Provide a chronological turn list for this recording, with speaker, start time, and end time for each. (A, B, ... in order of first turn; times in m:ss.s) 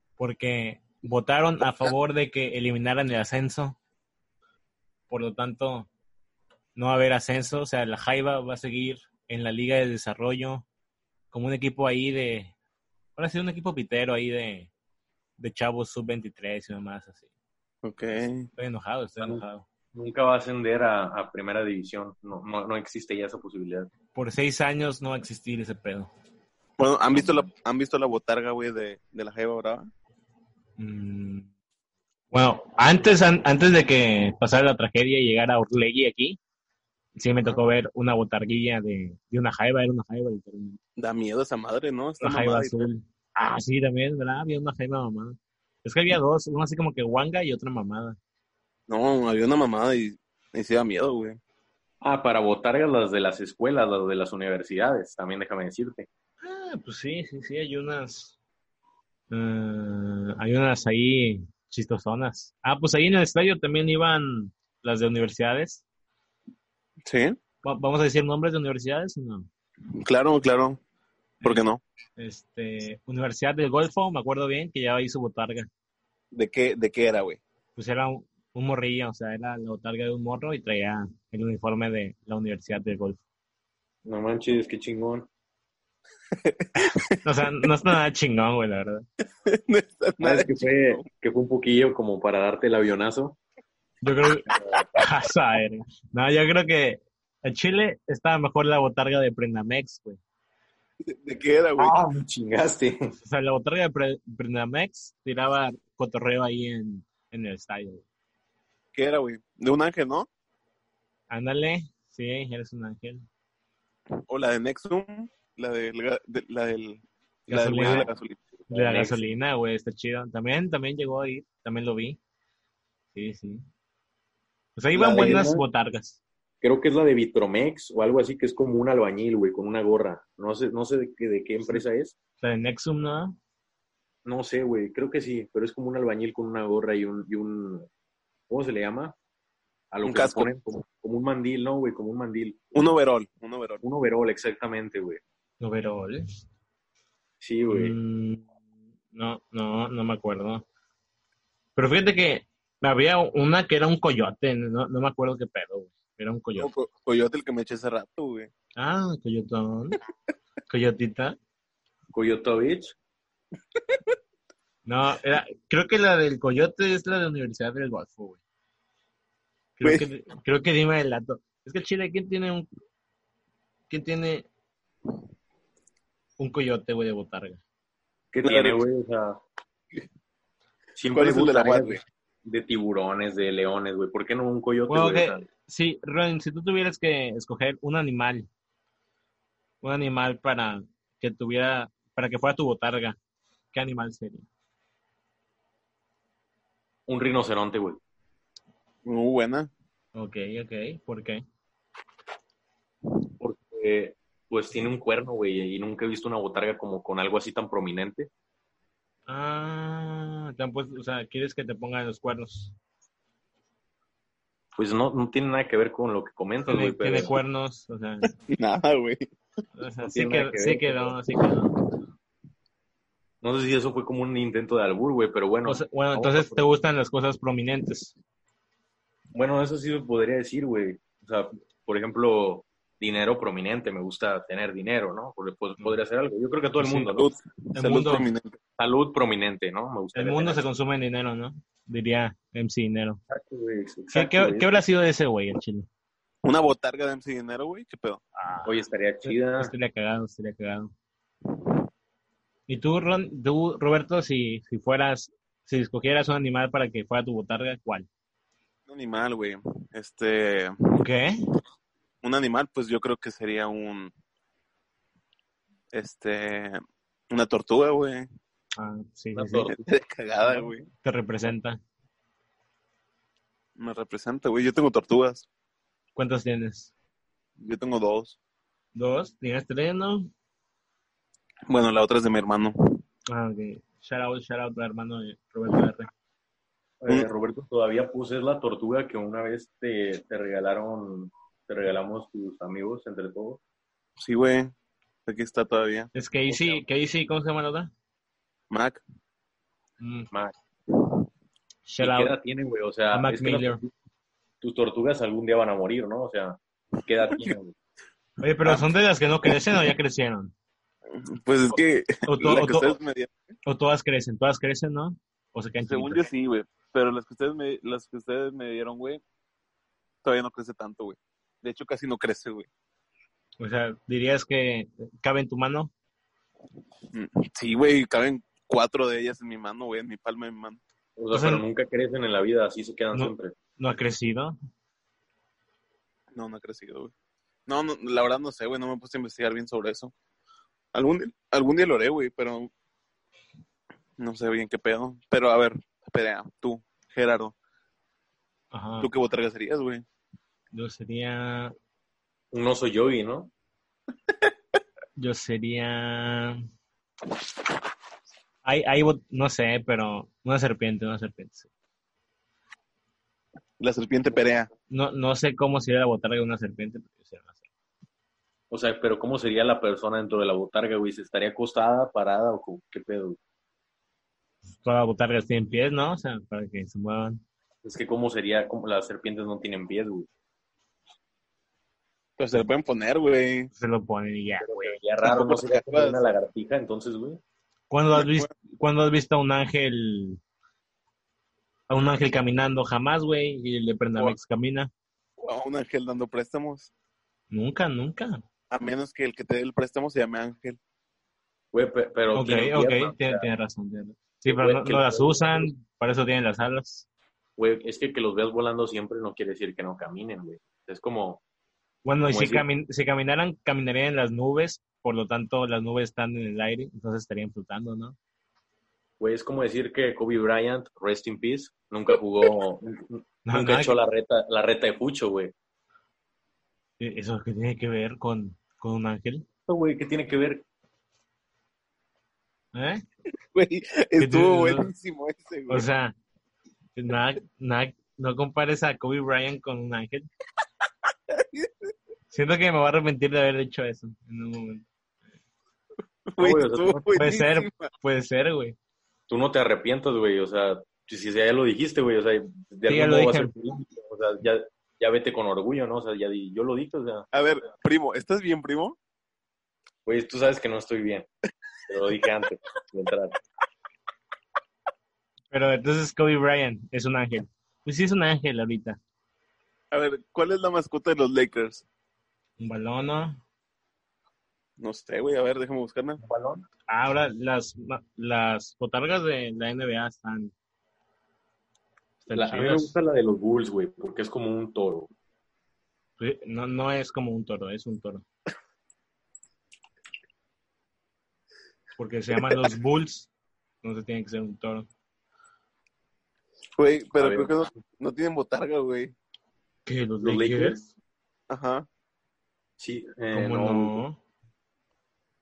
0:00.2-0:03.8 A
0:05.1-0:05.9 A
0:06.8-0:10.6 A
0:11.3-0:12.5 A
0:13.2-0:14.7 A
0:15.4-0:17.2 A
0:17.8-0:18.5 B
0:18.2-0:19.6 A
0:19.9-0:23.9 C
0:24.1-0:26.1 A
0:26.8-0:29.9 B
0:27.2-0:27.4 A
0:30.8-0:31.5 A
0:32.3-0:36.4 A
0:37.2-0:40.8 A
0:41.0-0:42.9 B
0:42.2-0:48.2 A
0:48.9-0:51.4 B
0:52.0-0:56.1 C
0:56.4-0:58.3 A
0:59.3-1:05.8 A
1:07.0-1:07.4 B
1:07.6-1:09.5 A
1:10.0-1:10.8 B
1:11.4-1:11.6 A
1:11.4-1:11.8 B
1:12.2-1:15.7 A
1:16.3-1:17.4 B
1:17.8-1:23.2 A
1:24.0-1:25.3 C
1:26.3-1:27.9 B
1:26.8-1:29.0 A
1:29.4-1:31.0 B
1:30.2-1:33.4 C
1:34.0-1:40.2 A
1:41.0-1:41.9 B
1:41.8-1:43.1 C
1:43.2-1:48.0 A
1:48.9-1:50.3 B
1:51.3-1:53.2 A
1:54.3-1:58.5 B
1:57.5-1:58.1 A
1:58.7-2:02.2 A
1:58.7-1:59.1 C
2:03.1-2:03.6 A
2:04.8-2:06.2 A
2:04.9-2:05.6 C
2:05.2-2:05.4 B
2:06.6-2:12.1 C
2:12.4-2:13.4 A
2:14.2-2:17.9 C
2:18.5-2:19.2 C
2:19.9-2:22.7 C
2:20.0-2:20.5 B
2:22.7-2:23.8 B
2:23.8-2:25.2 C
2:25.6-2:26.4 A
2:27.4-2:27.9 C
2:27.7-2:28.4 A
2:29.1-2:30.6 A
2:31.8-2:36.7 A
2:36.6-2:38.5 B
2:38.8-2:40.0 A
2:40.7-2:41.4 A
2:42.1-2:42.9 C
2:44.8-2:48.4 A
2:49.8-2:52.7 A
2:49.8-2:50.1 B
2:53.9-2:54.4 A
2:56.4-2:57.6 A
2:58.3-2:59.4 C
2:58.4-2:58.8 B
3:01.0-3:05.4 C
3:01.1-3:02.0 B
3:04.9-3:08.4 A
3:09.8-3:13.2 A
3:13.7-3:14.4 A
3:17.1-3:18.0 C
3:19.0-3:19.7 B
3:20.1-3:21.4 A
3:23.4-3:28.3 C
3:29.3-3:32.7 A
3:34.8-3:37.3 C
3:36.7-3:38.3 A
3:38.5-3:39.3 B
3:39.7-3:41.8 A
3:40.0-3:41.1 C
3:43.4-3:46.7 C
3:45.6-3:48.1 A
3:49.3-3:57.3 C
3:56.8-3:57.1 A
3:57.1-3:58.6 B
3:57.7-3:58.3 A
3:58.8-4:00.6 C
4:00.1-4:03.2 A
4:03.3-4:04.8 C
4:04.1-4:05.9 A
4:06.4-4:08.2 B
4:08.4-4:10.9 A
4:08.6-4:09.7 C
4:12.7-4:18.1 A
4:18.9-4:21.0 B
4:20.9-4:21.4 A
4:22.2-4:24.1 B
4:25.9-4:28.3 B
4:28.8-4:29.7 A
4:29.3-4:29.8 C
4:29.7-4:30.9 B
4:30.4-4:31.8 A
4:33.8-4:35.4 B
4:36.1-4:36.9 A
4:37.6-4:38.4 B
4:38.9-4:40.3 A
4:41.7-4:42.7 B
4:43.3-4:46.1 A
4:47.0-4:53.6 C
4:54.2-4:54.7 B
4:55.2-4:56.1 B
4:56.1-4:57.9 A
4:56.5-4:56.8 C
4:58.7-4:59.0 B
5:00.0-5:00.3 A
5:01.9-5:02.4 A
5:02.0-5:03.9 C
5:03.1-5:03.8 A
5:04.6-5:07.7 C
5:08.4-5:10.5 A
5:11.1-5:13.3 B
5:12.3-5:12.9 A
5:13.6-5:16.3 A
5:15.8-5:19.2 B
5:20.2-5:22.7 B
5:23.6-5:25.9 A
5:27.1-5:30.8 B
5:31.2-5:33.5 C
5:31.3-5:31.6 A
5:33.1-5:34.6 A
5:36.3-5:37.1 B
5:37.7-5:40.1 B
5:40.9-5:42.7 B
5:44.2-5:47.5 B
5:48.7-5:49.1 A
5:49.0-5:50.0 B
5:50.7-5:51.7 A
5:52.5-5:53.5 C
5:55.2-5:56.6 A
5:58.6-6:01.7 A
6:03.8-6:04.7 B
6:04.9-6:07.6 A
6:08.7-6:13.4 C
6:14.7-6:17.4 A
6:17.8-6:20.3 C
6:22.4-6:23.7 B
6:23.8-6:25.0 A
6:24.6-6:27.4 C
6:25.2-6:26.2 B
6:27.9-6:30.4 A
6:28.1-6:28.5 B
6:31.9-6:34.9 A
6:35.4-6:36.9 B
6:37.5-6:38.4 A
6:38.7-6:40.8 B
6:41.7-6:43.5 C
6:42.3-6:47.0 A
6:44.4-6:45.7 C
6:47.6-6:51.4 C
6:52.0-6:58.2 A
6:52.3-6:52.6 C
6:59.2-7:05.5 C
7:03.4-7:04.0 A
7:07.0-7:09.4 A
7:09.7-7:10.6 C
7:12.7-7:13.0 A
7:13.5-7:15.9 B
7:14.2-7:14.9 A
7:15.7-7:16.1 A
7:17.0-7:20.3 A
7:21.3-7:21.9 B
7:22.3-7:24.8 A
7:26.3-7:27.9 B
7:26.4-7:27.1 C
7:27.1-7:28.8 A
7:29.3-7:37.2 C
7:32.9-7:33.5 A
7:37.3-7:39.0 B
7:40.0-7:41.2 C
7:41.9-7:43.4 C
7:45.5-7:49.0 A
7:49.9-7:51.8 B
7:52.6-7:53.4 A
7:54.8-7:56.2 B
7:56.2-7:56.6 C
7:56.9-8:00.5 A
8:02.2-8:03.0 A
8:02.3-8:05.1 C
8:06.2-8:08.2 A
8:12.0-8:13.3 A
8:12.3-8:12.7 B
8:13.8-8:14.9 A
8:16.8-8:19.1 B
8:17.2-8:17.5 C
8:19.8-8:20.9 A
8:20.2-8:20.8 C
8:21.5-8:21.8 B
8:22.8-8:24.0 C
8:23.3-8:24.2 A